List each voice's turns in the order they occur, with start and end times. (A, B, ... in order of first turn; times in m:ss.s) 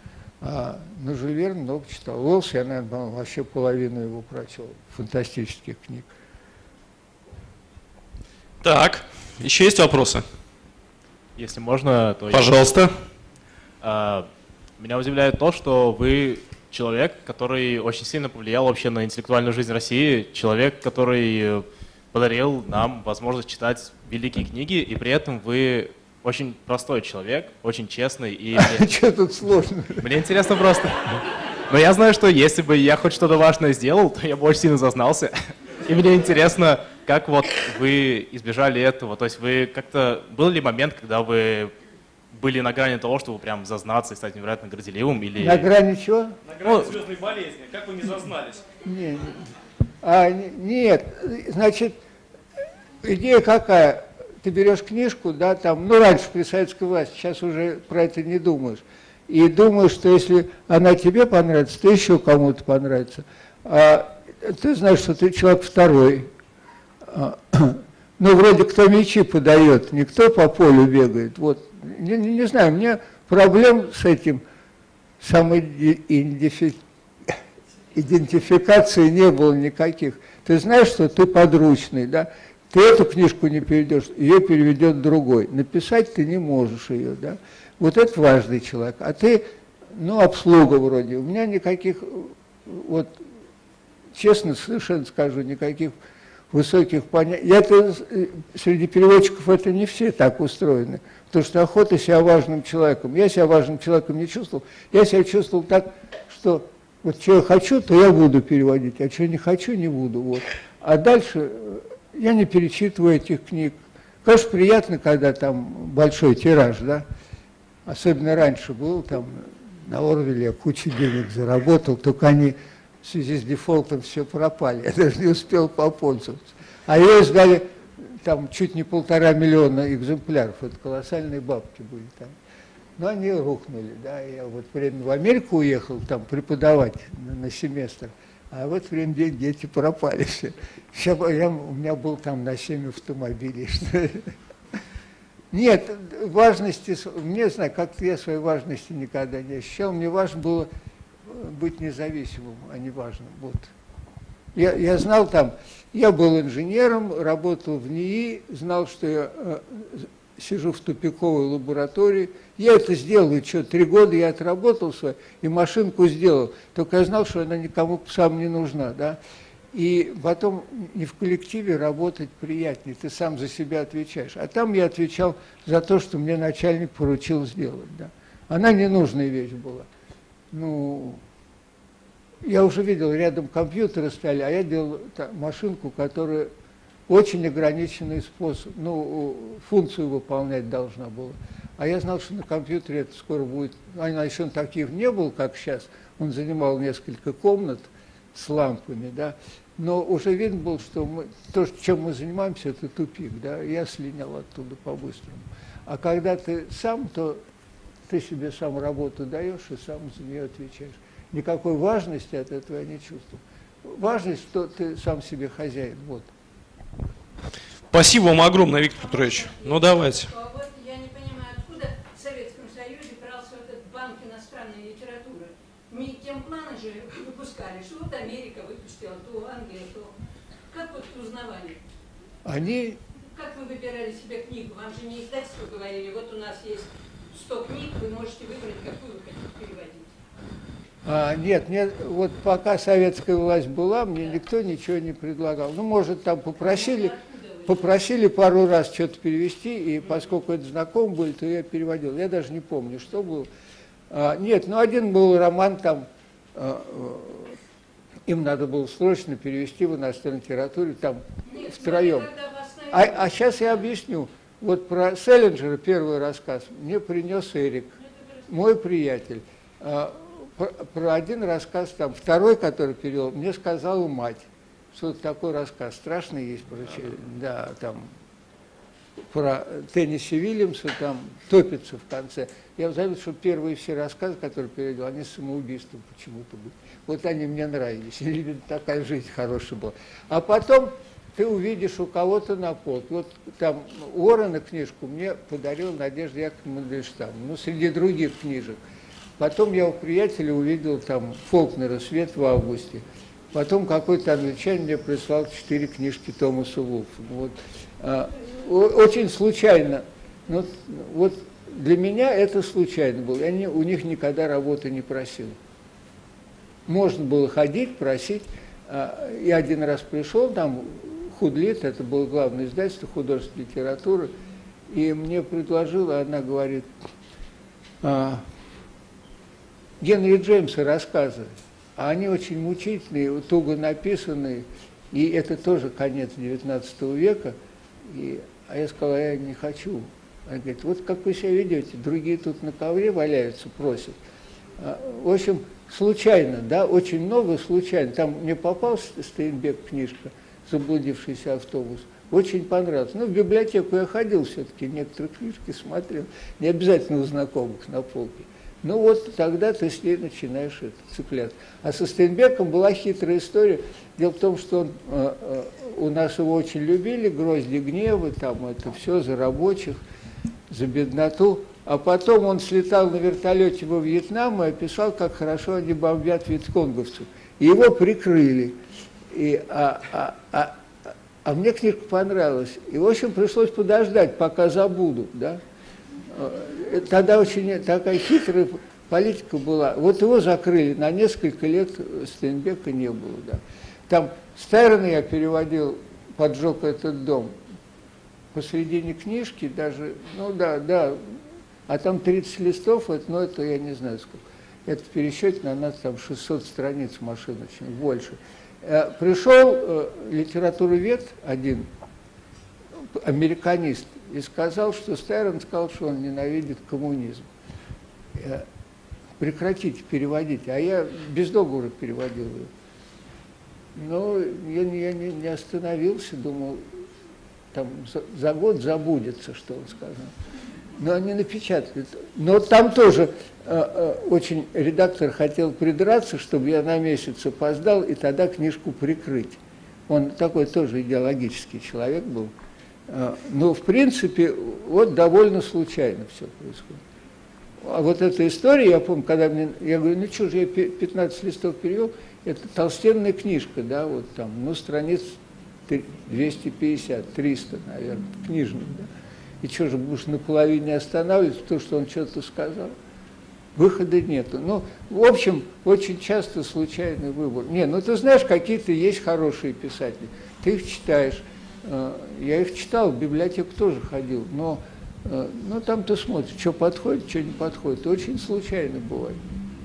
0:00.4-0:06.1 A
0:08.6-0:10.2 B
0:11.4-0:12.6 C
0:12.3-0:12.9 B
0:13.8-0:28.9 C
0:28.6-0:30.0 A
0:30.0-0:41.7 C
0:42.3-0:45.7 C
0:45.4-0:46.4 A
0:46.4-0:48.5 D
0:46.6-0:47.1 C
0:48.8-0:49.5 A
0:50.0-0:52.0 A
0:53.0-1:06.3 A
1:07.0-1:14.4 A
1:15.2-1:17.4 A
1:17.9-1:33.2 A
1:34.1-1:35.9 A
1:36.5-1:57.0 A
1:57.8-2:12.4 A
2:13.0-2:24.3 A
2:25.5-2:30.7 A
2:31.3-2:33.7 A
2:34.5-2:49.2 A
2:49.7-2:59.9 A
3:00.5-3:01.2 A
3:02.4-3:06.5 A
3:07.1-3:27.4 A
3:28.1-3:36.3 A
3:37.9-3:40.3 B
3:39.0-3:50.1 E
3:50.7-3:51.8 E
3:52.4-3:53.0 A
3:53.3-4:00.1 E
4:01.0-4:13.5 A
4:06.6-4:07.7 E
4:14.1-4:17.6 A
4:18.2-4:22.3 A
4:21.4-4:23.3 E
4:22.9-4:38.1 A
4:39.3-4:58.8 A
4:59.4-5:15.6 A
5:16.9-5:24.3 A
5:24.9-5:26.9 A
5:28.0-5:28.4 A
5:30.0-5:44.2 A
5:44.8-6:10.0 A
6:10.7-6:18.8 A
6:19.3-6:25.6 A
6:26.3-6:37.6 A
6:38.5-6:51.9 A
6:53.1-6:57.5 A
6:58.3-6:58.6 A
6:59.4-7:02.7 A
7:03.9-7:06.9 A
7:07.7-7:10.3 A
7:11.0-7:22.5 A
7:23.1-7:27.0 A
7:27.8-7:39.1 A
7:39.6-7:42.9 A
7:43.7-7:59.4 A